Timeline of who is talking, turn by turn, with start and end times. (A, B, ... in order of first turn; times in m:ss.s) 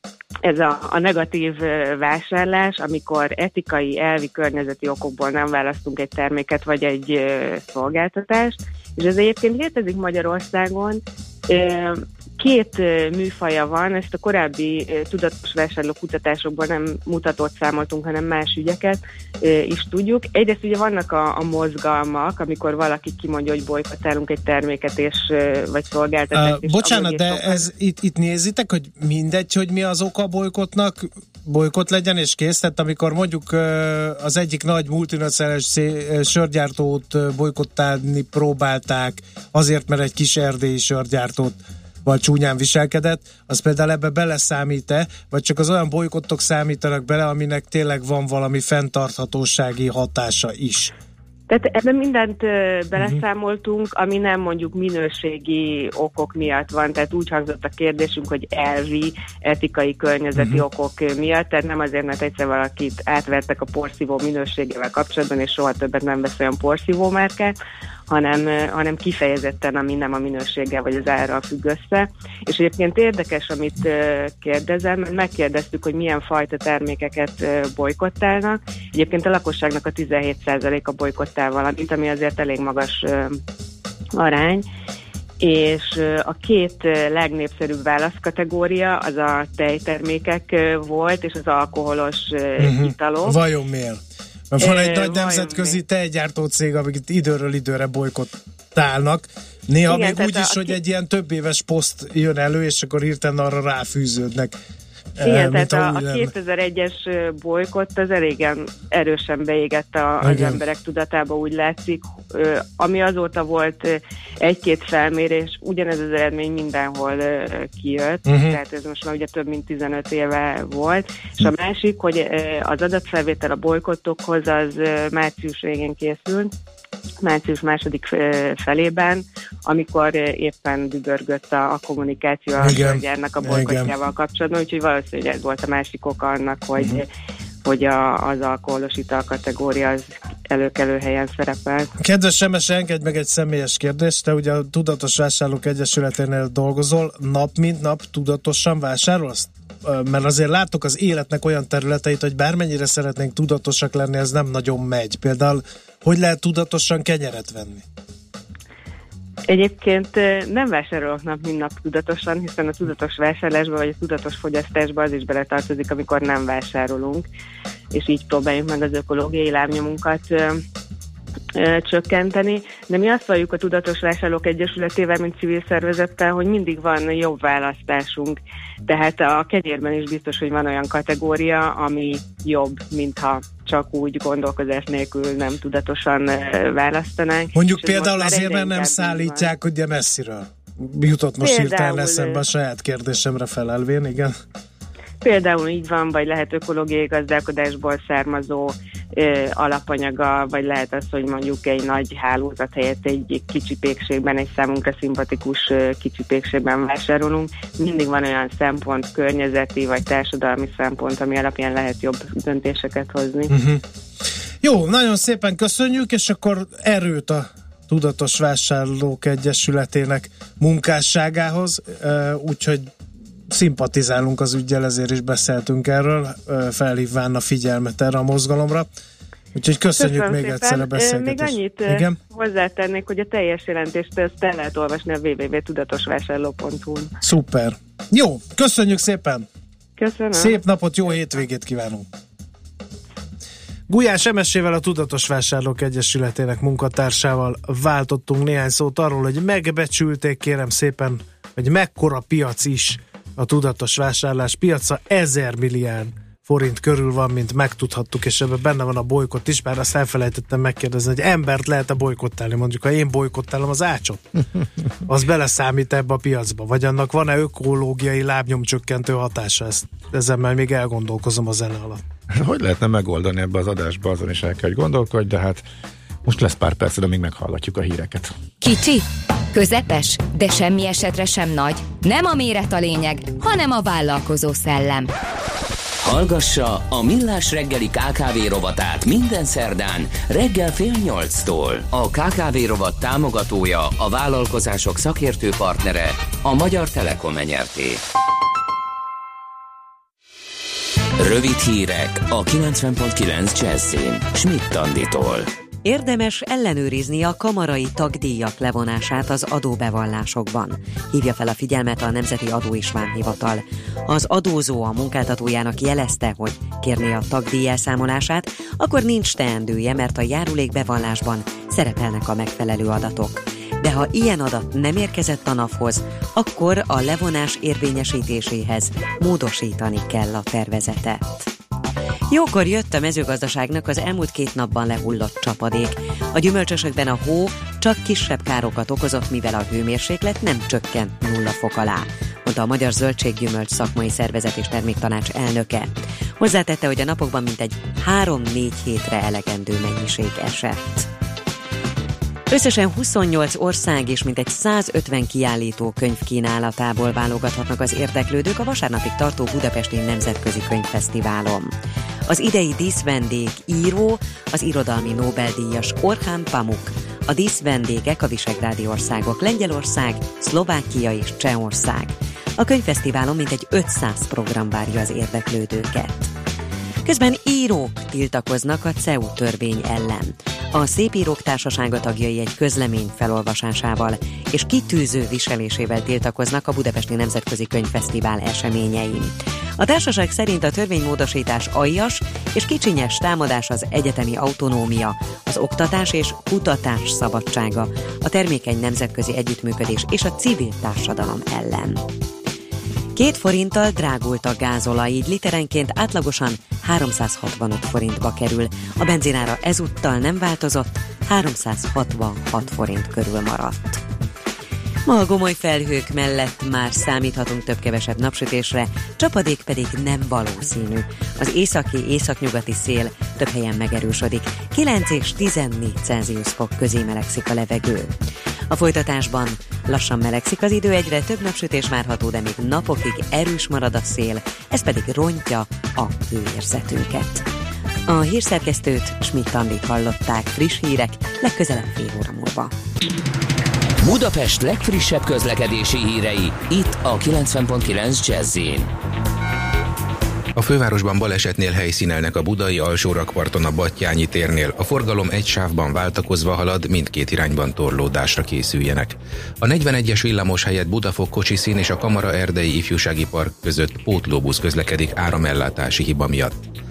0:00.4-0:27.7 A
0:26.3-0:50.9 B
0:51.5-1:07.5 A
1:00.4-1:00.6 B
1:08.1-1:23.4 A
1:24.2-1:24.6 A
1:25.4-1:33.4 A
1:32.6-1:34.0 B
1:34.5-1:44.6 B
1:34.6-1:35.8 A
1:39.9-1:40.8 A
1:45.2-1:46.3 B
1:45.2-2:06.5 A
1:50.2-1:50.6 B
1:58.2-1:58.6 B
2:07.2-2:17.1 A
2:12.6-2:13.9 B
2:16.8-2:17.0 B
2:17.6-2:21.9 A
2:22.0-2:37.8 B
2:39.5-2:47.3 A
2:47.9-2:50.6 A
2:51.6-3:09.5 A
3:07.5-3:14.3 B
3:11.4-3:12.4 A
3:15.2-3:33.5 A
3:33.5-3:33.8 B
3:34.6-3:42.9 B
3:43.5-3:48.9 B
3:49.5-3:52.2 B
3:49.9-3:57.1 A
3:57.2-3:59.4 B
4:00.0-4:00.6 A
4:00.4-4:02.0 B
4:03.9-4:24.2 B
4:25.0-4:32.0 B
4:32.3-4:35.6 C
4:36.2-4:38.3 C
4:38.6-4:45.1 D
4:46.0-4:58.0 E
5:01.2-5:05.5 E
5:05.8-5:31.5 F
5:32.3-5:51.1 F
5:52.5-6:01.7 F
6:02.3-6:16.3 F
6:17.0-6:42.0 F
6:43.1-6:54.0 F
6:55.0-7:17.4 F
7:18.1-7:22.7 F
7:24.0-7:28.9 E
7:30.6-7:46.6 G